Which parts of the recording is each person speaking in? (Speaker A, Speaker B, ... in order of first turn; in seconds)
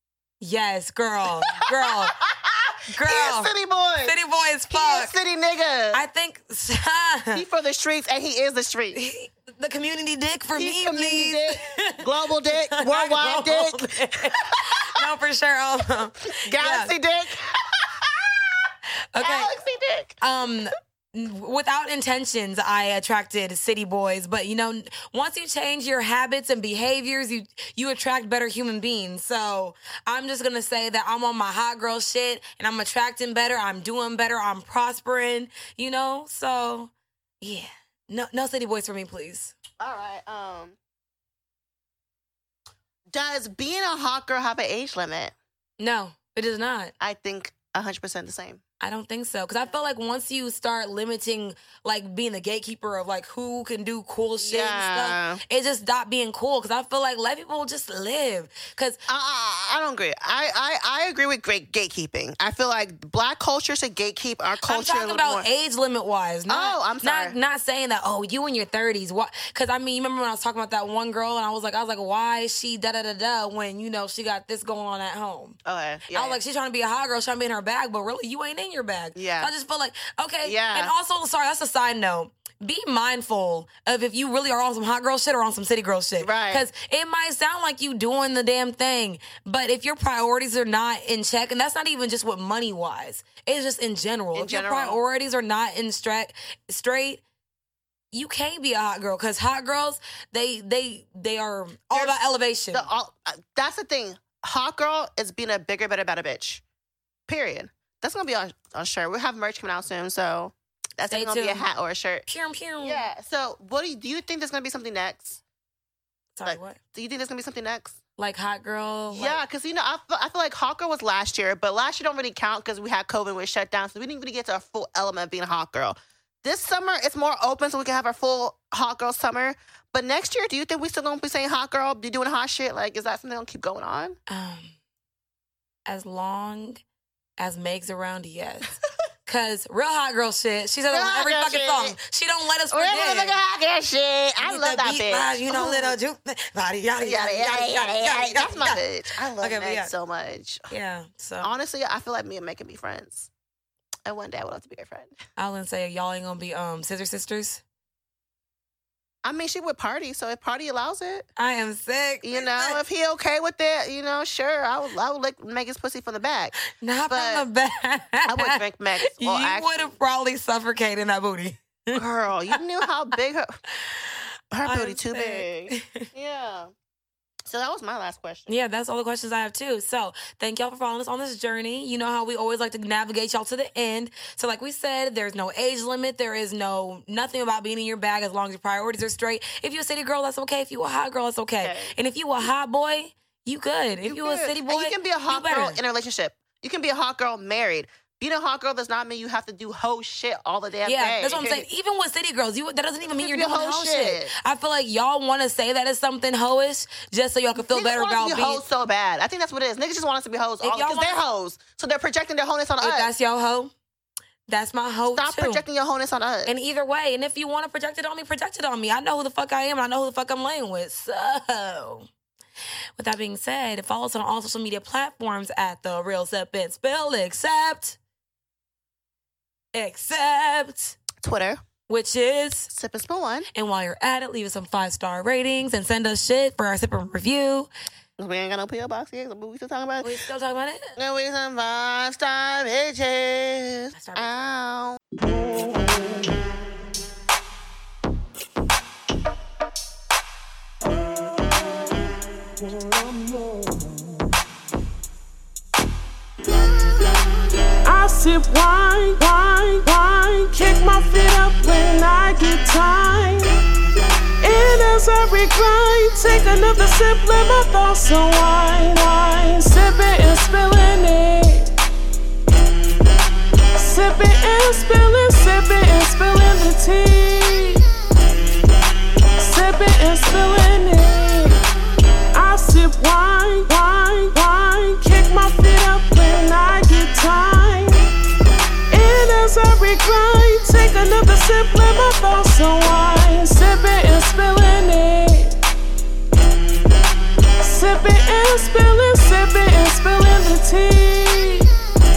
Speaker A: 0.4-2.2, 2.9-5.1, 5.9-7.4, 8.9-16.9, 19.1-19.6, 20.2-39.5, 45.8-46.9, 48.8-59.0, 64.6-75.6, 76.1-97.2, 98.1-102.9, 111.1-111.7, 112.3-113.0, 116.4-116.8, 118.2-119.4, 134.3-134.8, 135.9-136.8, 137.4-138.7, 139.3-143.4, 144.4-149.9, 150.7-151.5, 155.4-157.6, 161.4-162.8, 166.7-172.6, 173.8-176.1, 178.5-195.8, 200.8-208.6, 210.6-211.2, 212.8-213.7, 214.5-215.6, 216.5-222.1, 223.0-228.0, 229.7-231.0, 231.9-232.7, 233.5-237.7, 240.0-240.9, 243.9-244.4
Speaker B: 1.6-4.1, 4.7-6.0, 7.3-9.0, 10.5-15.0, 16.3-20.2, 39.8-40.8, 43.1-45.3, 47.0-48.6, 54.4-55.4, 59.1-65.5, 66.5-67.4, 75.7-76.4, 79.2-79.5, 80.4-80.9, 86.2-86.7, 94.3-95.0, 101.9-106.6, 107.3-112.3, 112.8-115.4, 116.5-118.0, 119.1-134.2, 140.9-142.0, 142.7-146.0, 147.0-150.7, 151.4-153.3, 154.1-155.1, 159.2-161.3, 162.2-166.6, 167.1-167.4, 168.2-169.9, 171.9-173.6, 174.5-176.7, 177.5-178.5, 191.6-191.9, 194.1-201.7, 203.1-204.3, 207.6-213.1, 215.1-216.5, 231.2-231.6, 232.7-233.5, 238.2-240.1, 241.0-245.0
Speaker C: 257.8-263.6, 264.4-271.7, 273.8-277.9, 279.4-281.6, 282.3-288.1, 288.9-295.5, 297.6-301.7